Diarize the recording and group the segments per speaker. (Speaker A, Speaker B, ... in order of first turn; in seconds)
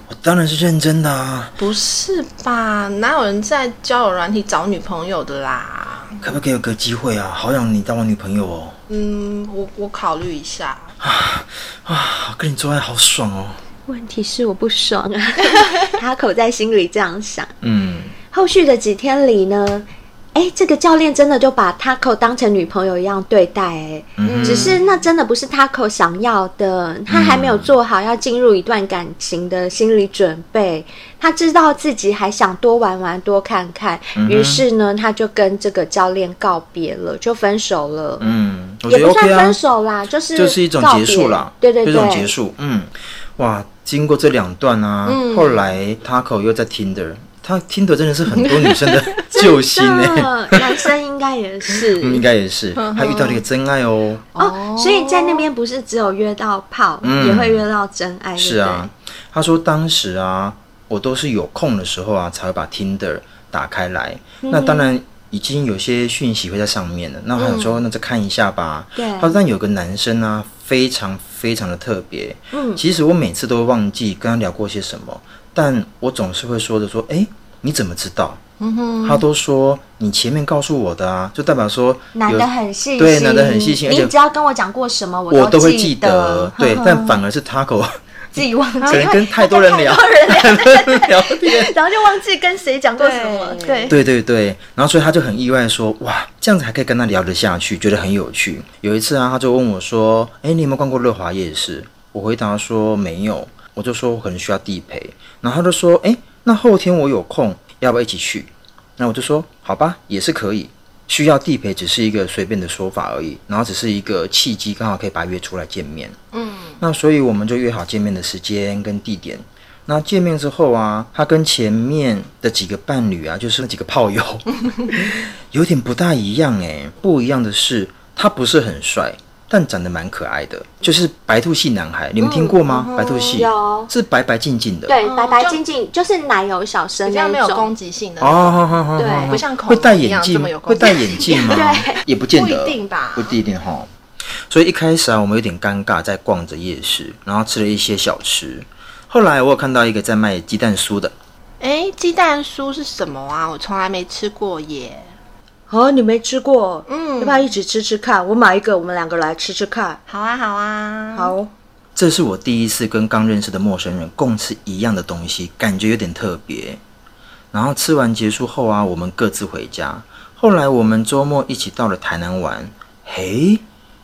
Speaker A: 0.1-1.5, 6.2-8.8, 11.0-13.6, 17.6-18.1, 24.2-24.8, 27.1-27.7, 34.2-34.6, 38.2-39.6, 40.3-50.6, 52.0-54.2, 57.0-57.6, 58.4-78.4, 79.0-84.1, 85.3-91.7, 93.9-116.2, 116.8-134.9, 138.2-143.9, 144.5-151.1, 162.0-166.8, 167.5-173.6
Speaker B: 1.6-6.2, 8.9-10.9, 24.2-24.8, 45.1-45.6, 48.4-49.1, 52.8-53.4, 54.4-55.5, 67.4-67.8, 78.6-79.2, 88.8-89.1, 93.0-94.0, 116.3-116.8, 132.7-133.4, 135.0-135.6, 137.1-141.7, 142.3-143.4, 151.6-155.1, 156.9-157.5, 160.1-161.3
Speaker C: 13.9-17.5, 18.3-38.3, 38.9-42.3, 49.3-52.2, 54.4-58.9, 64.4-64.9, 69.0-69.4, 72.5-72.8, 82.1-87.2, 88.3-93.9, 132.2-132.6, 133.3-133.9, 134.9-137.7, 139.0-139.4, 141.3-142.0, 155.7-160.0, 161.1-161.5